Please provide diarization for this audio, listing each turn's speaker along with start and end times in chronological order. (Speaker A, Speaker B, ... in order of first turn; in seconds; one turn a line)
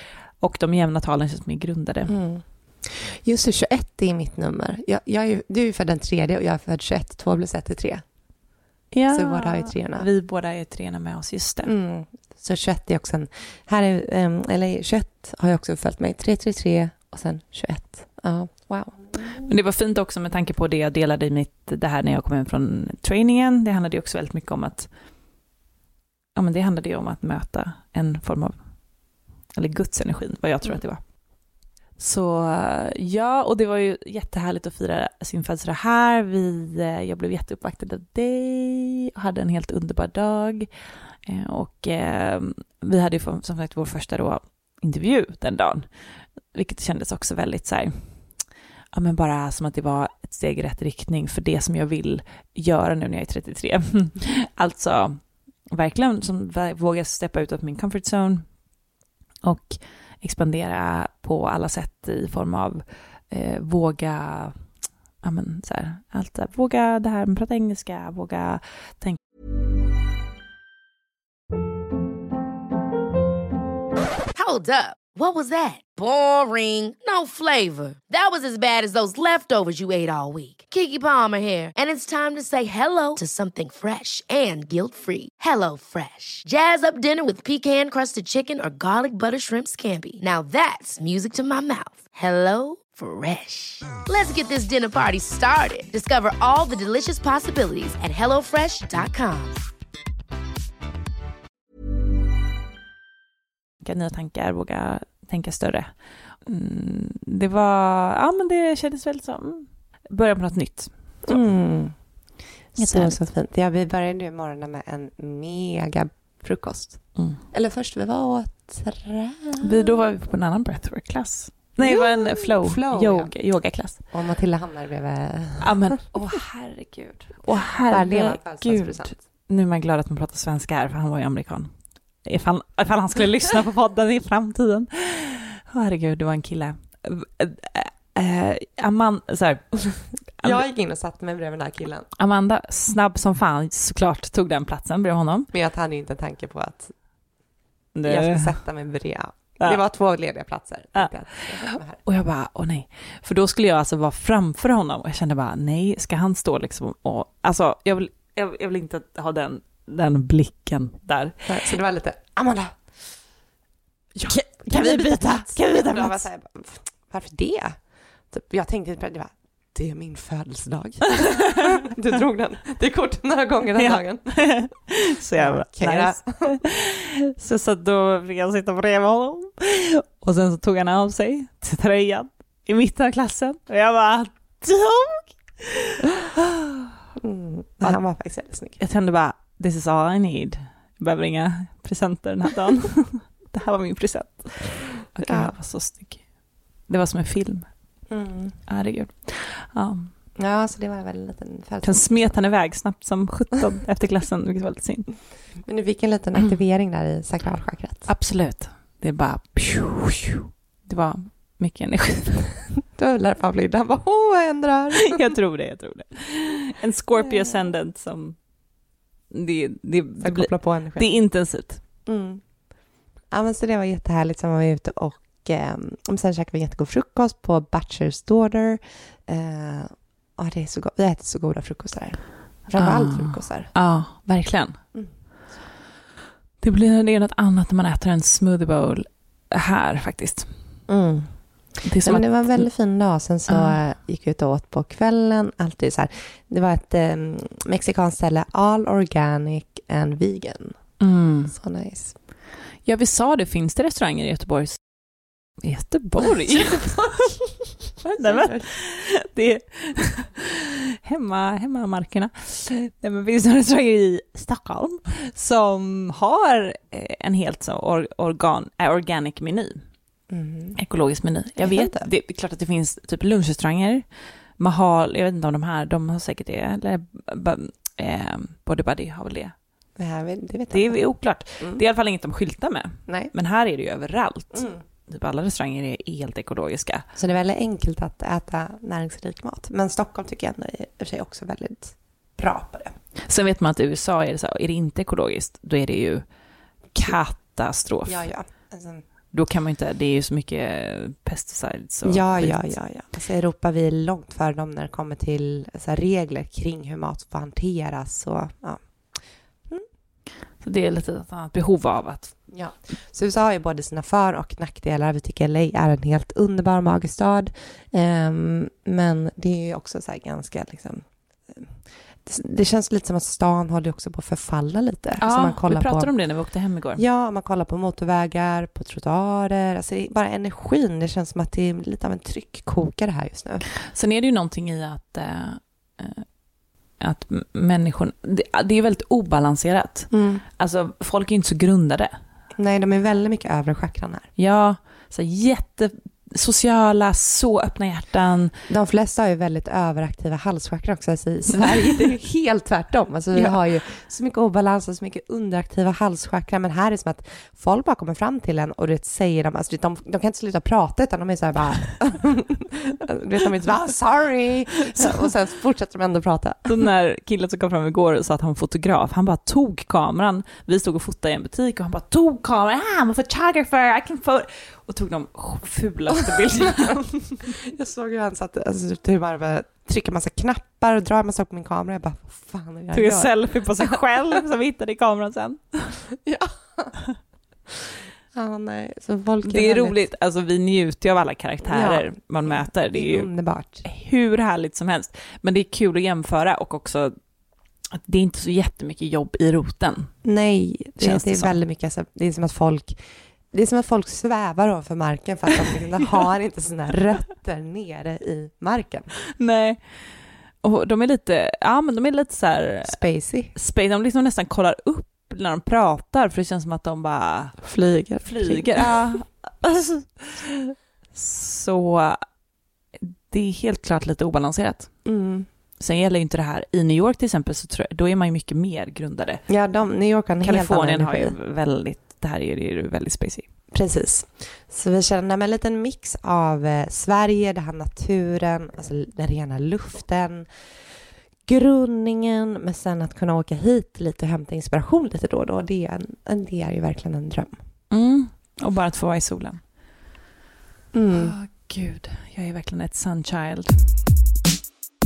Speaker A: 0.4-2.1
Speaker B: 2.1-8.0
Speaker A: 8.9-11.7
Speaker B: 9.1-10.1
Speaker B: 11.6-19.4
Speaker A: 19.4-24.9
Speaker A: 26.4-28.6
Speaker A: 29.6-31.0
Speaker A: 32.0-40.7
Speaker A: 41.3-45.9
Speaker A: 46.5-48.3
Speaker A: 48.9-58.5
Speaker A: 59.4-64.7
Speaker A: 65.2-69.2
Speaker C: 74.3-99.6
Speaker A: 103.8-105.9
Speaker A: 106.5-111.4
Speaker B: 111.2-112.0
Speaker B: 112.8-120.0
Speaker A: 112.8-113.2
Speaker A: 119.6-124.0
Speaker B: 121.8-123.3
Speaker B: 124.1-126.0
Speaker A: 125.6-131.7
Speaker B: 127.9-129.2
Speaker A: 132.3-140.6
Speaker B: 140.4-142.1
Speaker A: 142.2-145.5
Speaker B: 145.5-146.9
Speaker A: 148.0-148.6
Speaker B: 148.1-152.0
Speaker A: 150.9-161.5
Speaker B: 161.5-162.8
Speaker B: 164.2-167.8
Speaker A: 164.2-166.3
Speaker B: 168.3-174.6
Speaker A: 171.2-171.5
Speaker A: 173.8-186.9
Speaker B: 175.4-176.6
Speaker B: 187.2-188.8
Speaker A: 188.8-196.2
Speaker B: 195.3-195.5
Speaker A: 196.9-197.7
Speaker B: 198.1-198.6
Speaker A: 198.7-200.1
Speaker B: 200.4-202.1
Speaker A: 201.8-205.1
Speaker B: 205.7-208.1
Speaker A: 208.1-212.5
Speaker B: 212.9-215.3
Speaker A: 215.1-218.4
Speaker B: 217.2-217.6
Speaker A: 219.3-221.8
Speaker B: 220.2-221.1
Speaker B: 222.1-222.4
Speaker B: 223.3-233.7
Speaker A: 232.7-234.8
Speaker A: 236.6-240.5
Speaker B: 240.9-241.4
Speaker A: 241.8-242.7
Speaker B: 242.0-250.9
Speaker A: 243.5-243.8
Speaker A: 251.0-251.6
Speaker B: 251.5-252.2
Speaker A: 252.8-254.8
Speaker A: 255.6-257.4
Speaker B: 256.6-257.3
Speaker A: 258.0-269.8
Speaker B: 258.2-258.7
Speaker B: 270.3-270.8
Speaker A: 270.8-274.1
Speaker B: 271.6-272.1
Speaker A: 274.6-279.5
Speaker B: 280.0-281.0
Speaker A: 280.7-287.1
Speaker B: 283.1-283.3
Speaker B: 284.5-284.8
Speaker B: 287.1-293.0
Speaker A: 293.2-296.2
Speaker A: 296.9-298.3
Speaker B: 298.1-299.0
Speaker A: 299.3-302.8
Speaker B: 302.1-308.8
Speaker A: 310.6-312.4
Speaker B: 312.5-326.1
Speaker A: 325.2-327.0
Speaker B: 327.0-333.7
Speaker A: 333.8-336.2
Speaker A: 337.0-342.1
Speaker B: 340.1-340.4
Speaker B: 342.6-344.3
Speaker A: 344.4-348.6
Speaker B: 348.7-366.8
Speaker A: 366.7-377.5
Speaker B: 376.6-376.9
Speaker B: 377.5-384.0
Speaker A: 382.9-386.0
Speaker B: 386.1-386.9
Speaker B: 388.3-390.0
Speaker A: 389.4-393.3
Speaker B: 391.7-393.8
Speaker A: 393.8-397.2
Speaker A: 397.9-400.1
Speaker B: 400.2-409.1
Speaker A: 401.0-401.6
Speaker A: 409.4-410.0
Speaker A: 410.6-413.0
Speaker B: 412.9-413.5
Speaker A: 413.6-417.6
Speaker B: 417.6-418.7
Speaker A: 418.2-422.2
Speaker A: 423.0-424.9
Speaker B: 425.1-425.5
Speaker A: 425.8-429.4
Speaker B: 429.5-431.4
Speaker A: 430.4-433.5
Speaker B: 433.7-440.5
Speaker B: 441.5-447.6
Speaker A: 447.9-449.6
Speaker B: 450.9-451.4
Speaker A: 451.1-453.9